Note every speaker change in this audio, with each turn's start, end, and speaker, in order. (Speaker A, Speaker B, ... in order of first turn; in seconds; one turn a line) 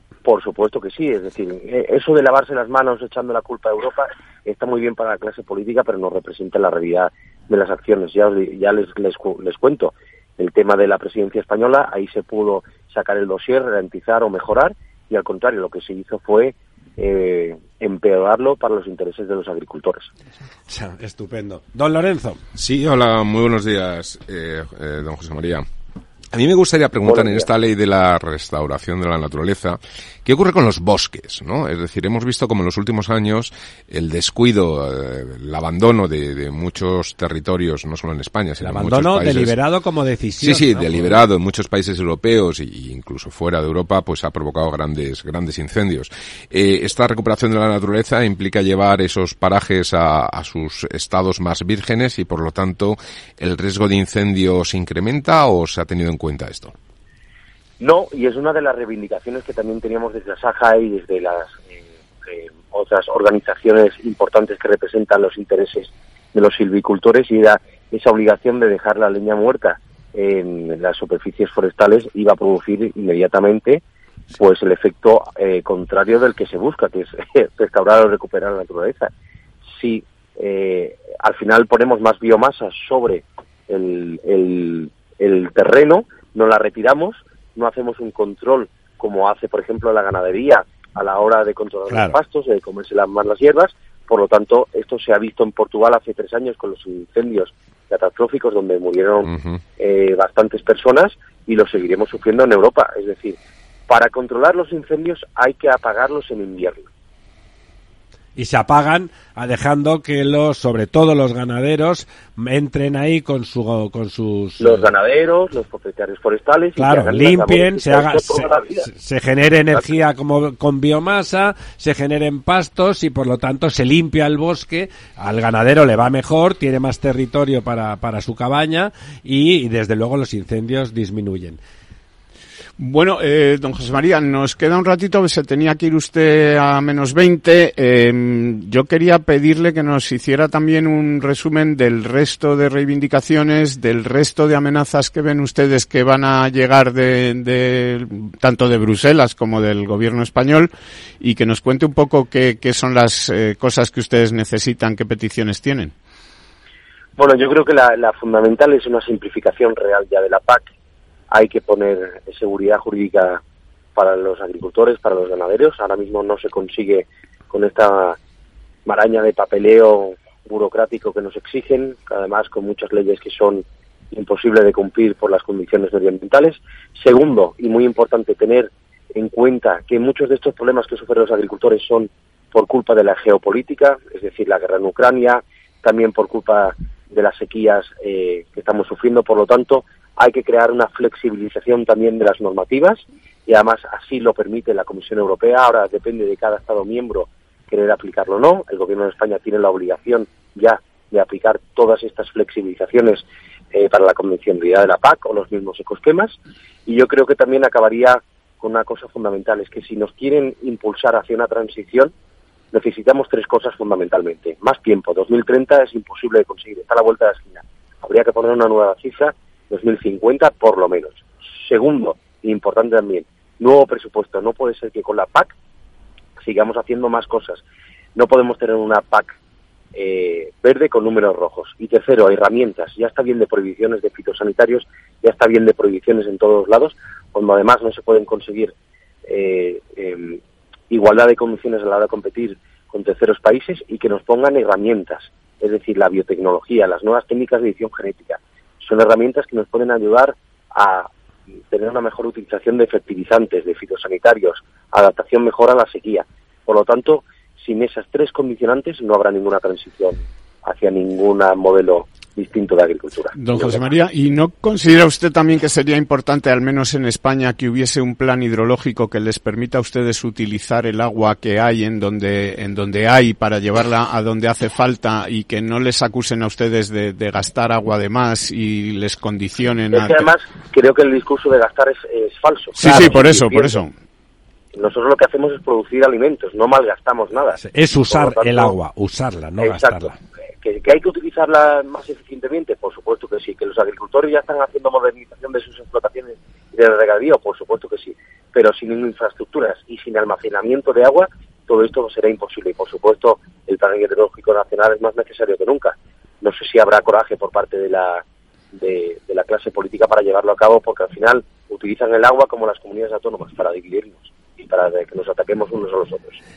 Speaker A: 0.2-20.1
Speaker B: 20.7-22.4
Speaker C: 22.5-25.6
Speaker C: 26.3-39.5
Speaker A: 27.1-27.5
Speaker B: 38.6-41.2
Speaker C: 40.4-56.7
Speaker A: 57.8-73.8
Speaker A: 74.3-79.1
Speaker A: 79.7-103.4
Speaker B: 91.9-92.2
Speaker C: 99.3-99.6
Speaker A: 103.9-106.9
Speaker B: 108.4-114.9
Speaker A: 114.6-118.9
Speaker B: 116.8-131.6
Speaker D: 132.8-155.9
Speaker A: 157.2-160.7
Speaker A: 161.3-163.4
Speaker A: 164.0-168.2
Speaker A: 168.9-212.1
Speaker A: 212.7-225.5
Speaker A: 226.4-227.6
Speaker A: 228.1-229.4
Speaker A: 229.9-238.7
Speaker A: 239.3-240.4
Speaker A: 240.9-251.1
Speaker A: 251.7-263.9
Speaker D: 263.4-280.3
Speaker A: 279.9-283.8
Speaker D: 282.8-283.9
Speaker B: 282.8-283.2
Speaker A: 284.7-288.8
Speaker B: 287.6-290.1
Speaker A: 289.6-290.1
Speaker A: 290.6-308.2
Speaker A: 308.8-316.4